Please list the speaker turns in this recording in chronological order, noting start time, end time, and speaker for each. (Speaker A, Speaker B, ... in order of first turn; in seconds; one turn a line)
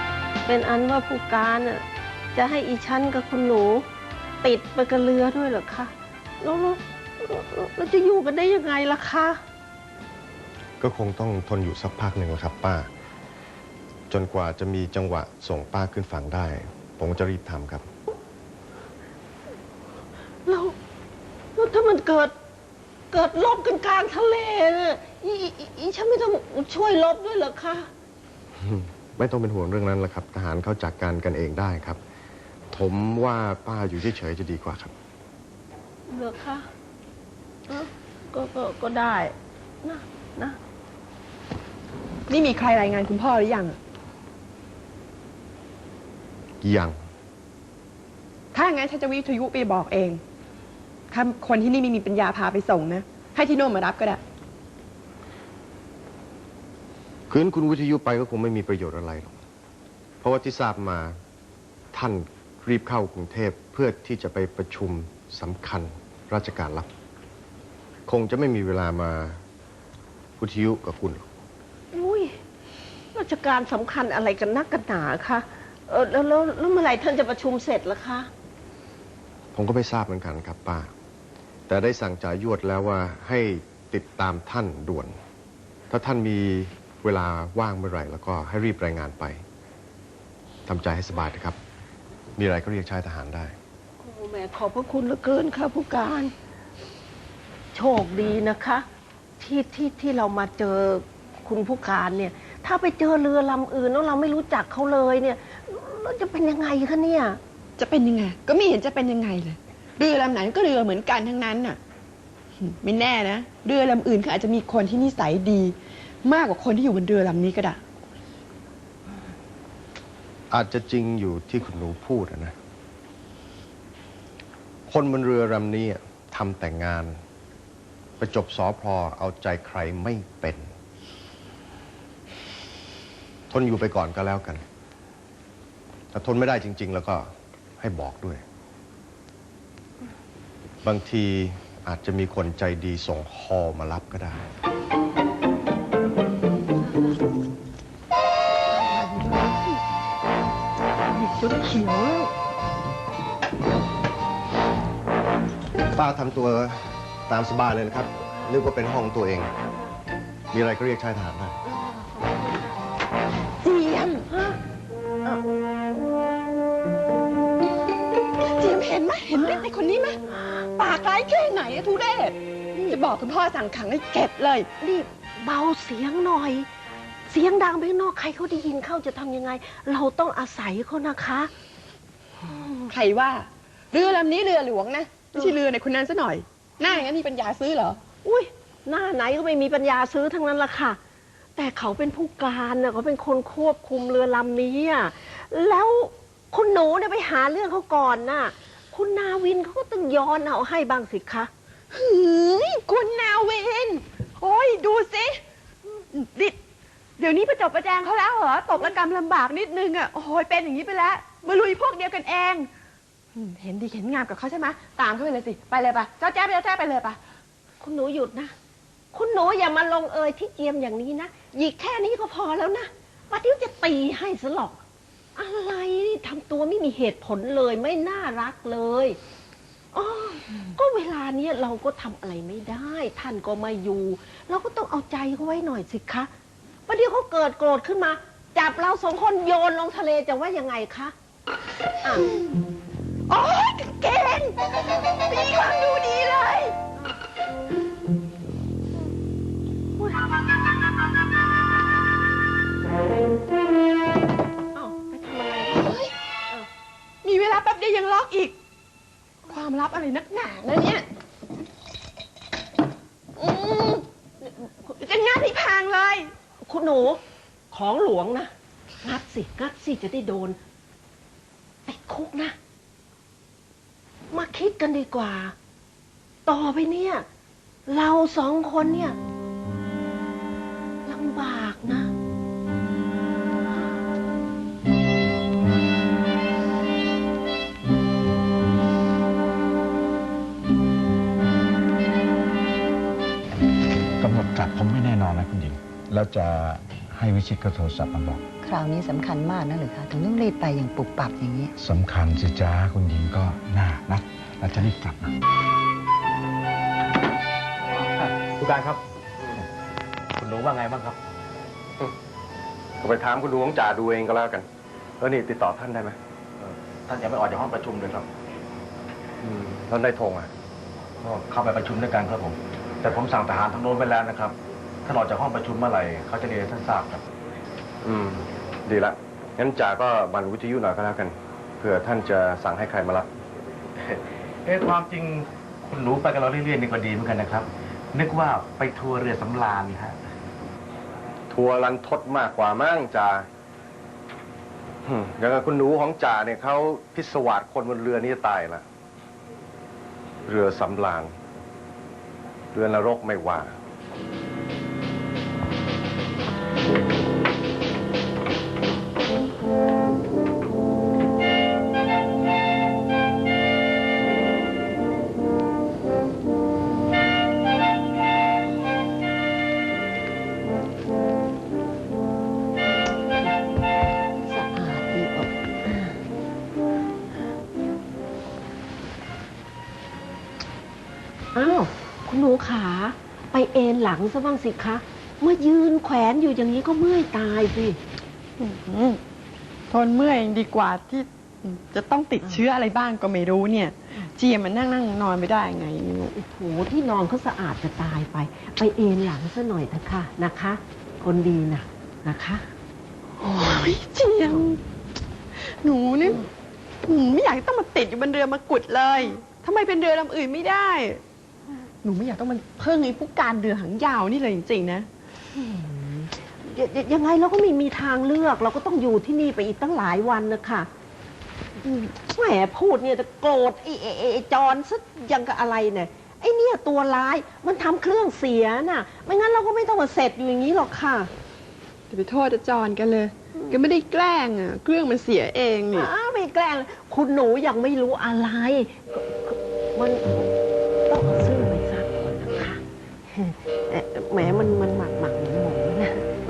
Speaker A: 0.5-3.9
Speaker A: 4.4-9.4
Speaker B: 10.8-12.9
Speaker B: 14.1-17.9
Speaker A: 20.5-20.8
Speaker A: 21.6-22.3
Speaker A: 23.1-27.9
Speaker B: 28.6-32.0
Speaker B: 32.7-34.9
Speaker A: 36.1-36.7
Speaker A: 37.7-40.6
Speaker C: 42.3-43.8
Speaker B: 46.6-47.0
Speaker C: 48.5-50.2
Speaker C: 51.1-54.2
Speaker B: 57.3-59.4
Speaker B: 60.2-61.1
Speaker B: 61.9-66.9
Speaker B: 68.1-69.4
Speaker B: 70.4-71.2
Speaker A: 71.9-72.4
Speaker A: 73.1-78.3
Speaker B: 79.5-80.9
Speaker B: 81.7-85.1
Speaker B: 85.9-89.4
Speaker B: 90.7-91.6
Speaker B: 92.4-93.5
Speaker A: 94.0-96.3
Speaker A: 97.7-98.8
Speaker A: 99.4-107.4
Speaker C: 107.8-111.8
Speaker C: 112.6-117.8
Speaker B: 120.5-122.5
Speaker B: 124.9-127.2
Speaker B: 128.2-130.7
Speaker B: 133.5-134.6
Speaker B: 136.1-137.3
Speaker B: 137.8-138.4
Speaker B: 140.8-144.4
Speaker A: 148.7-149.8
Speaker A: 151.1-152.3
Speaker B: 155.9-159.5
Speaker B: 160.5-161.6
Speaker A: 161.7-162.8
Speaker C: 163.6-164.2
Speaker A: 164.3-164.6
Speaker C: 168.4-172.4
Speaker A: 169.3-169.6
Speaker A: 170.3-170.7
Speaker A: 172.7-173.0
Speaker C: 172.9-174.7
Speaker A: 174.8-176.7
Speaker A: 177.3-181.5
Speaker A: 182.5-182.8
Speaker C: 182.9-188.0
Speaker A: 188.2-191.0
Speaker A: 191.6-201.5
Speaker C: 201.9-205.4
Speaker C: 206.1-206.6
Speaker C: 207.2-212.7
Speaker C: 213.3-217.2
Speaker A: 217.8-218.5
Speaker A: 219.1-224.8
Speaker A: 225.4-229.2
Speaker A: 229.9-236.3
Speaker A: 236.9-241.1
Speaker A: 242.0-242.3
Speaker C: 243.3-246.8
Speaker A: 254.7-256.7
Speaker C: 257.2-258.6
Speaker C: 259.5-261.1
Speaker C: 263.4-264.0
Speaker C: 264.9-266.3
Speaker A: 266.6-268.5
Speaker A: 269.0-270.6
Speaker A: 271.9-272.6
Speaker A: 274.3-275.6
Speaker A: 276.5-277.2
Speaker A: 277.9-279.2
Speaker A: 281.1-282.1
Speaker D: 294.2-298.3
Speaker E: 294.5-295.1
Speaker E: 296.1-296.6
Speaker E: 297.2-298.4
Speaker F: 298.6-301.7
Speaker D: 301.8-303.4
Speaker E: 301.9-304.2
Speaker D: 304.9-305.2
Speaker D: 307.9-309.0
Speaker D: 310.4-311.2
Speaker B: 313.0-314.7
Speaker B: 315.2-316.2
Speaker D: 316.6-318.3
Speaker B: 319.4-320.5
Speaker D: 321.2-327.2
Speaker B: 328.0-333.3
Speaker D: 334.0-340.2
Speaker B: 341.5-343.4
Speaker B: 345.1-348.8
Speaker B: 350.5-351.3
Speaker B: 352.7-353.8
Speaker A: 374.4-376.2
Speaker A: 381.6-388.0
Speaker C: 388.6-389.2
Speaker C: 389.9-396.3
Speaker A: 396.4-402.6
Speaker C: 403.4-404.8
Speaker C: 405.6-406.4
Speaker C: 407.0-411.2
Speaker C: 412.0-415.1
Speaker A: 415.5-420.9
Speaker C: 421.8-422.1
Speaker A: 422.2-431.3
Speaker C: 432.1-436.1
Speaker A: 433.5-433.8
Speaker A: 435.9-440.5
Speaker A: 441.1-446.2